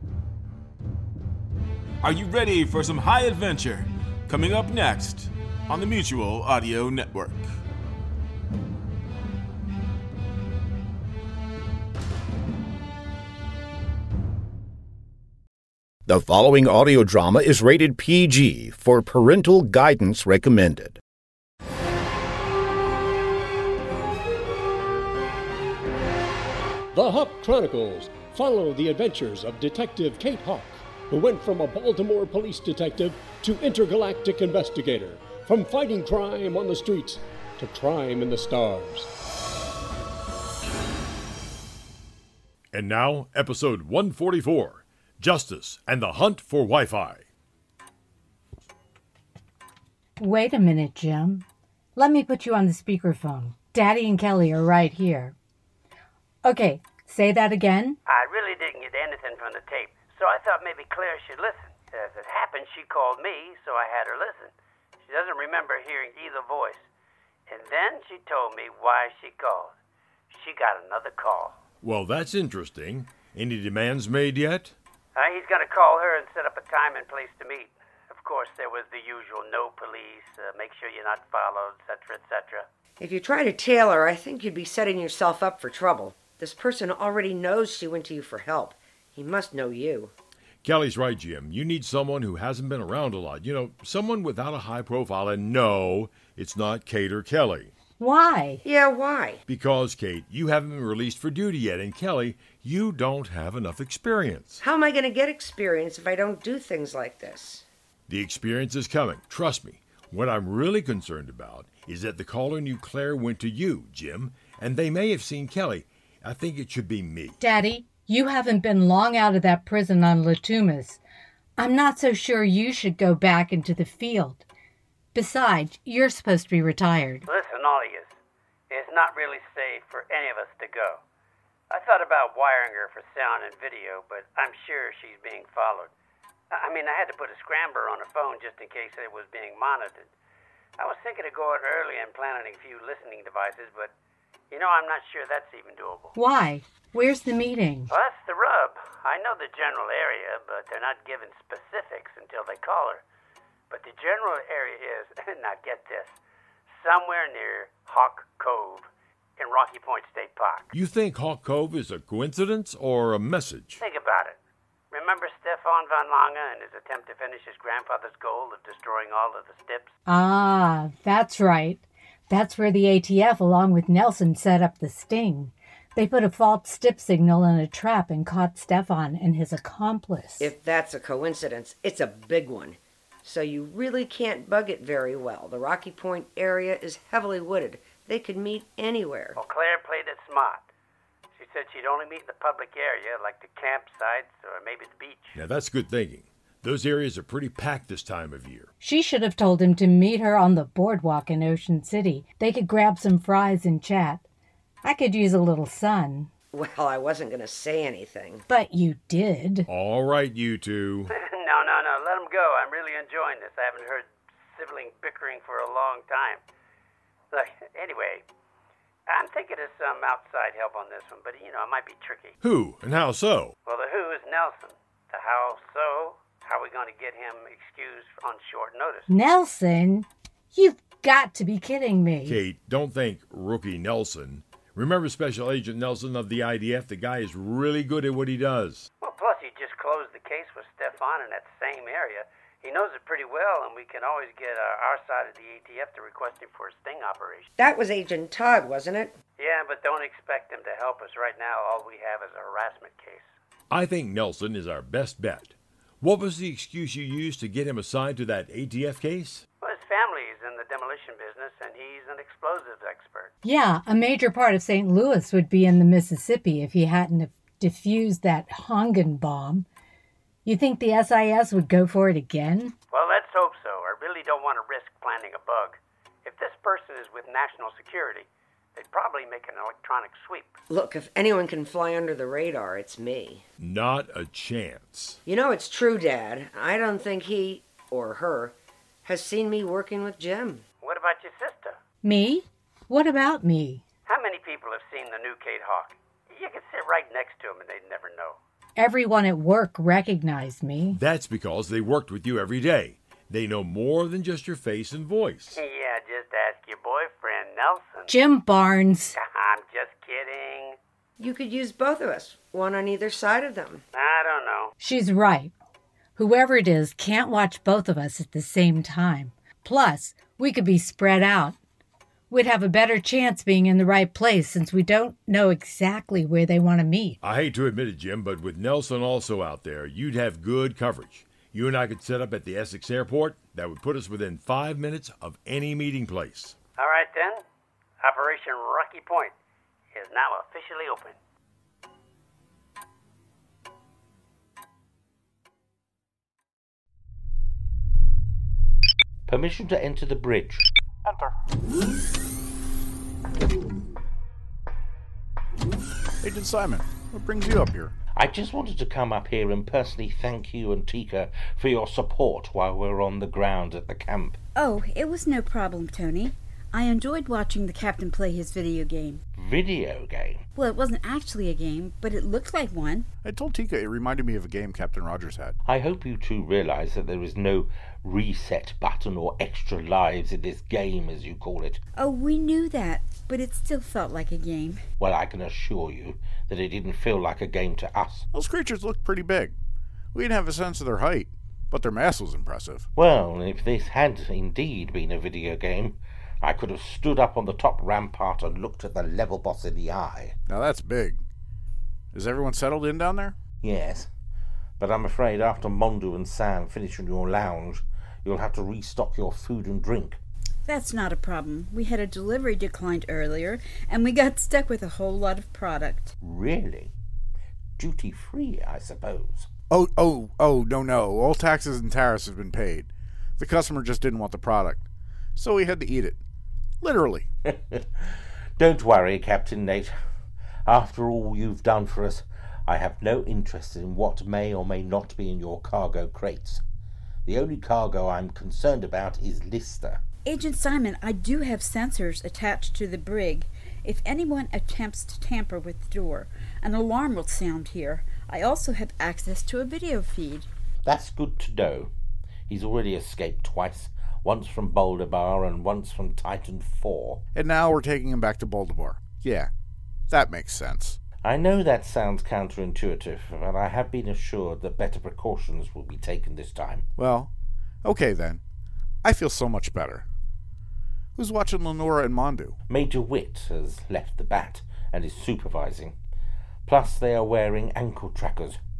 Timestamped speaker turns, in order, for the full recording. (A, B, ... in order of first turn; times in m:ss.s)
0:02.0-0:07.5 A
0:16.1-0:21.0 B
0:26.9-0:39.1 C
0:42.7-0:47.2 D
0:50.2-0:51.4 E
0:52.0-0:55.4 E
0:56.4-0:58.0 E
0:58.1-1:04.5 F
1:05.1-1:06.9 F
1:07.5-1:09.7 F
1:10.3-1:11.6 F
1:11.8-1:14.7 D
1:15.2-1:22.7 F
1:23.0-1:30.1 G
1:30.6-1:37.7 D
1:38.0-1:38.6 E
1:38.6-1:39.4 G
1:39.5-1:44.6 D
1:44.6-1:47.6 G
1:48.1-1:57.4 D
1:57.4-2:01.0 E
2:01.6-2:04.4 E
2:05.2-2:07.3 E
2:07.3-2:08.1 F
2:08.7-2:11.0 F
2:11.7-2:15.9 F
2:16.5-2:20.1 F
2:20.8-2:23.9 F
2:24.5-2:26.2 F
2:26.2-2:27.9 E
2:27.9-2:33.0 F
2:33.7-2:36.1 F
2:36.7-2:40.7 F
2:40.7-2:43.8 D
2:43.8-2:44.4 F
2:44.9-2:49.9 F
2:50.1-3:00.5 E
3:00.4-3:09.4 G
3:09.4-3:10.6 F
3:11.4-3:15.4 F
3:15.4-3:18.7 D
3:18.8-3:24.2 E
3:24.8-3:26.3 E
3:26.5-3:28.4 G
3:28.5-3:29.7 E
3:29.7-3:31.1 D
3:31.1-3:36.4 F
3:37.3-3:38.2 F
3:39.1-3:42.4 F
3:42.4-3:43.5 D
3:43.7-3:49.1 F
3:49.1-3:52.4 E
3:52.3-3:58.9 D
3:59.0-4:07.5 F
4:07.6-4:09.2 G
4:09.4-4:13.3 F
4:13.7-4:19.4 D
4:19.6-4:23.3 F
4:23.4-4:29.7 E
4:30.4-4:32.8 E
4:32.9-4:40.5 F
4:40.7-4:43.4 G
4:43.6-4:45.2 D
4:45.3-4:50.6 G
4:50.8-4:51.8 F
4:52.0-4:53.8 E
4:54.1-4:58.4 F
4:58.8-5:01.0 E
5:01.0-5:05.6 D
5:05.6-5:08.1 F
5:08.1-5:09.2 E
5:09.2-5:10.8 F
5:11.2-5:13.8 G
5:13.9-5:14.7 F
5:14.8-5:15.5 E
5:16.2-5:21.6 E
5:22.3-5:27.2 E
5:27.2-5:36.6 D
5:36.8-5:37.4 F
5:38.0-5:39.3 F
5:39.9-5:41.2 F
5:49.3-5:50.6 H
5:51.0-5:51.4 I
5:56.2-5:57.9 I
5:58.2-6:04.4 H
6:04.6-6:09.2 J
6:09.4-6:10.4 H
6:10.6-6:13.1 J
6:13.2-6:15.6 I
6:15.6-6:21.8 H
6:22.0-6:24.8 J
6:25.0-6:28.3 H
6:28.3-6:29.6 I
6:30.1-6:32.9 I
6:33.0-6:40.4 H
6:40.5-6:41.2 I
6:42.1-6:43.4 I
6:43.6-6:44.1 H
6:44.8-6:50.2 H
6:50.7-6:56.1 J
6:56.2-6:56.9 H
6:57.8-6:59.5 H
6:59.7-7:04.8 I
7:05.4-7:06.2 I
7:06.8-7:07.3 I
7:07.5-7:09.9 H
7:10.7-7:16.6 H
7:17.3-7:20.0 H
7:20.3-7:30.5 J
7:30.8-7:31.9 H
7:32.5-7:37.2 H
7:37.3-7:39.5 I
7:40.1-7:41.0 I
7:41.2-7:46.9 H
7:47.0-7:47.3 I
7:47.8-7:48.4 I
7:49.0-7:50.0 I
7:51.2-7:52.6 I
7:52.7-7:56.0 H
7:56.7-7:58.6 H